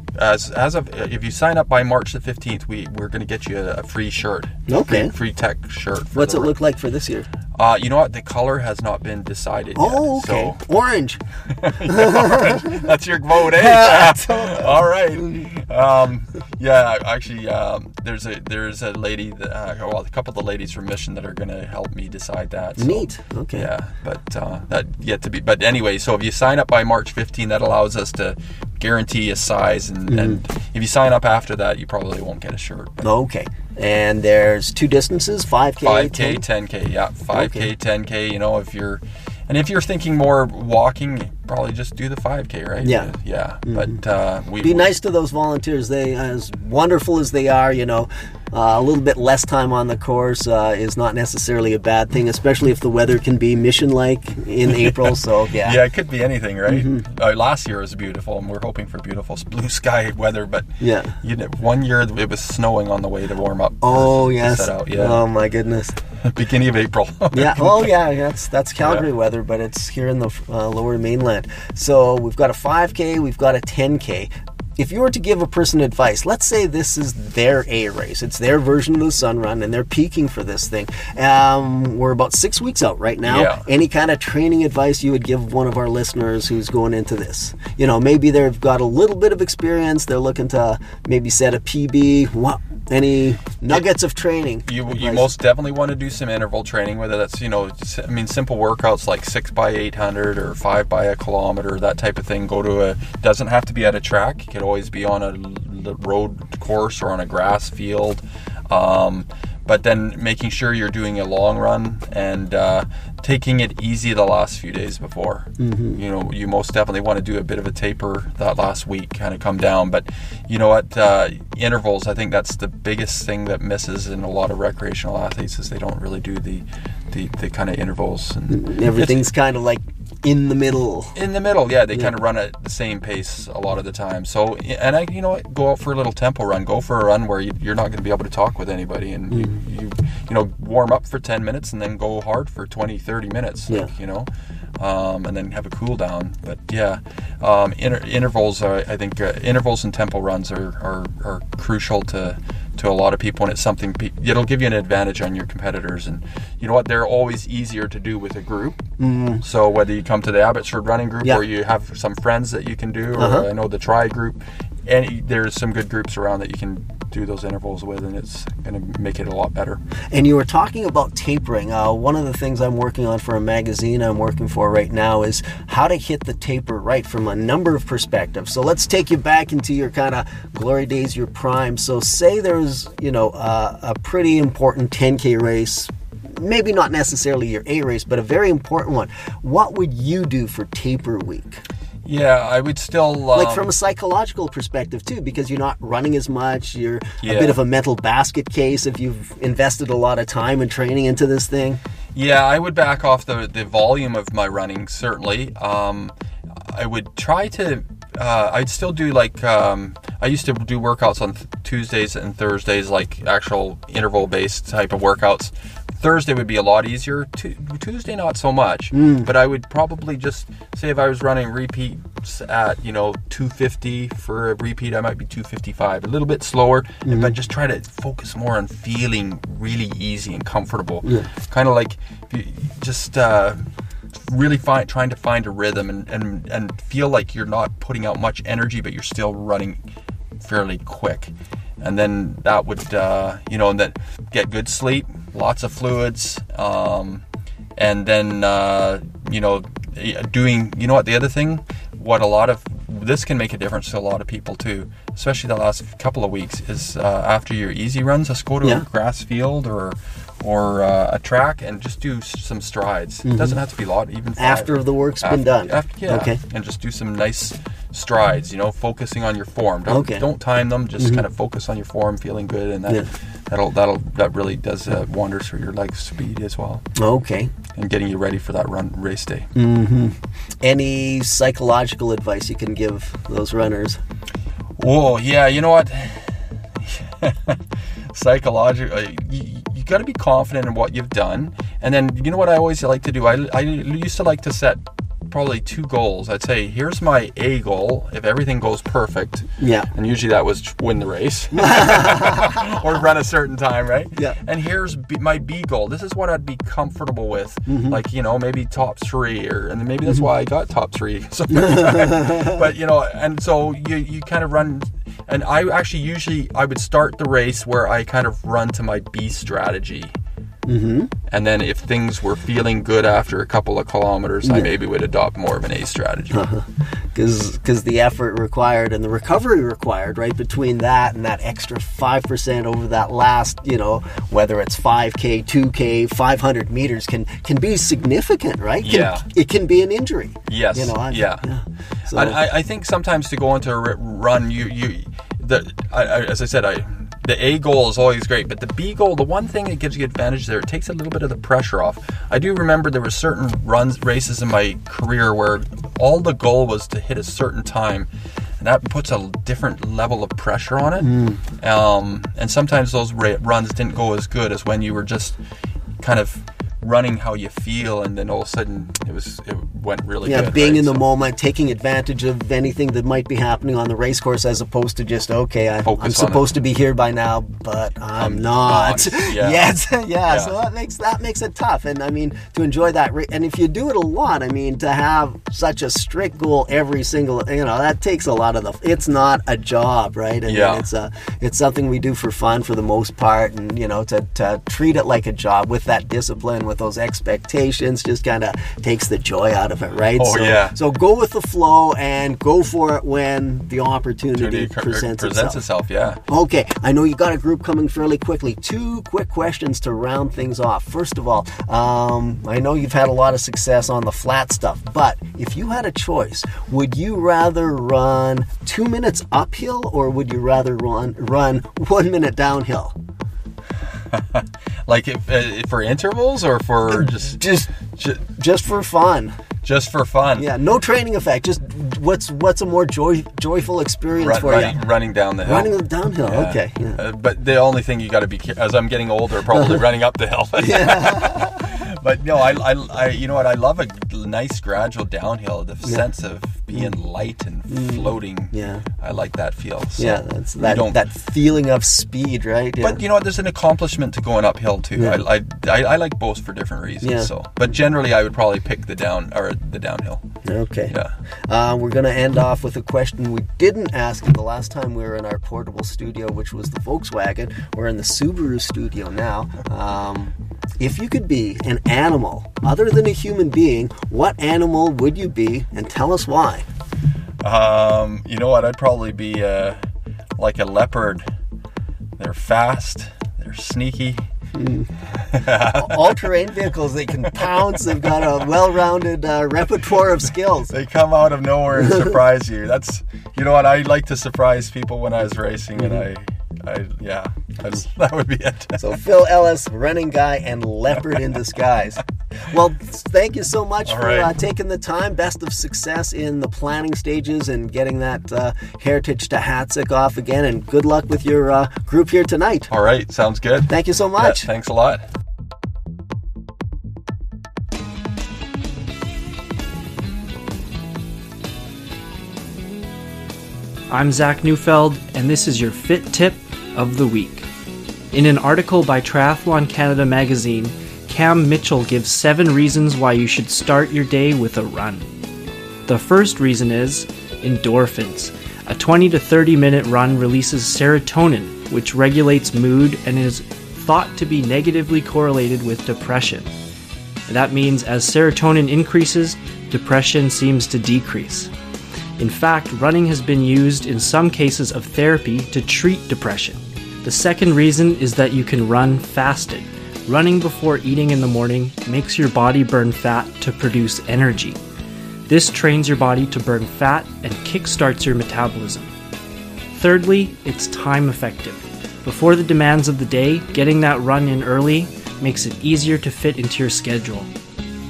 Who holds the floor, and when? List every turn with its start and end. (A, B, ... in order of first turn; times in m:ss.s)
0:00.2-0:06.5 A
0:04.7-0:05.1 B
0:06.2-0:07.3 B
0:07.6-0:10.6 A
0:09.8-0:11.2 B
0:11.5-0:33.1 A
0:11.8-0:12.9 B
0:13.4-0:15.4 B
0:22.8-0:23.7 B
0:30.1-0:30.4 B
0:33.0-0:36.4 B
0:35.8-0:44.9 A
0:37.3-0:37.7 B
0:42.8-0:43.1 B
0:43.7-0:44.0 B
0:44.6-0:55.8 B
0:54.7-1:05.2 A
0:56.7-0:57.0 B
1:00.8-1:01.2 B
1:03.8-1:06.0 B
1:06.2-1:07.9 A
1:07.3-1:35.3 B
1:08.8-1:09.1 A
1:23.2-1:23.6 A
1:34.7-2:09.2 A
1:55.6-1:56.0 B
2:08.5-2:11.2 B
2:11.2-2:38.8 A
2:39.0-2:39.4 B
2:39.4-2:49.8 A
2:43.2-2:43.5 B
2:50.1-3:11.6 B
3:12.0-3:13.7 A
3:13.3-3:21.8 B
3:17.2-3:17.6 A
3:22.1-3:53.6 A
3:38.9-3:39.3 B
3:47.0-3:47.4 B
3:51.0-3:51.3 B
3:54.2-3:59.8 A
4:00.4-4:07.2 A
4:07.8-4:36.8 A
4:23.2-4:23.6 B
4:24.4-4:26.4 B
4:29.9-4:30.2 B
4:31.0-4:31.3 B
4:37.0-4:37.5 B
4:37.7-4:39.5 A
4:39.6-4:44.0 B
4:44.8-5:20.2 A
4:59.6-4:59.9 B
5:01.6-5:02.6 B
5:07.7-5:08.0 B
5:11.5-5:12.6 B
5:20.7-5:21.1 B
5:21.3-5:26.4 A
5:24.4-5:24.7 B
5:26.3-5:42.4 B
5:38.8-5:39.2 A
5:40.5-5:41.5 A
5:42.1-5:58.1 A
5:58.6-6:05.4 A
6:01.0-6:01.4 B
6:06.0-6:11.0 A
6:10.2-6:45.6 B
6:15.8-6:16.4 A
6:18.2-6:19.7 A
6:20.3-6:20.5 A
6:30.5-6:30.8 A
6:40.2-6:40.8 A
6:44.4-6:46.2 A
6:46.3-7:03.0 B
7:04.1-7:08.2 A
7:06.9-7:07.7 B
7:08.2-7:09.4 B
7:09.6-7:10.5 A
7:10.4-7:14.8 B
7:14.2-7:31.0 A
7:15.4-7:17.0 B
7:19.5-7:19.8 B
7:20.6-7:21.7 B
7:27.7-7:28.8 B
7:30.0-7:33.0 B
7:32.8-7:40.2 A
7:35.0-7:35.2 B
7:37.0-7:37.3 B
7:40.4-7:56.7 B
7:57.4-7:59.8 A
8:00.4-8:01.3 A
8:02.2-8:04.2 A
8:04.5-8:04.9 B
8:05.2-8:06.3 A
8:05.7-8:10.7 B
8:07.2-8:08.4 A
8:10.7-8:19.0 A
8:11.8-8:12.2 B
8:15.8-8:16.0 B
8:18.8-8:32.7 B
8:23.9-8:24.3 A
8:32.7-8:35.0 A
8:33.7-8:34.5 B
8:43.9-8:47.5 C
8:48.1-8:55.1 C
8:55.9-9:06.5 C
9:07.3-9:11.5 C
9:12.2-9:24.6 C
9:25.3-9:28.9 C
9:29.7-9:37.3 C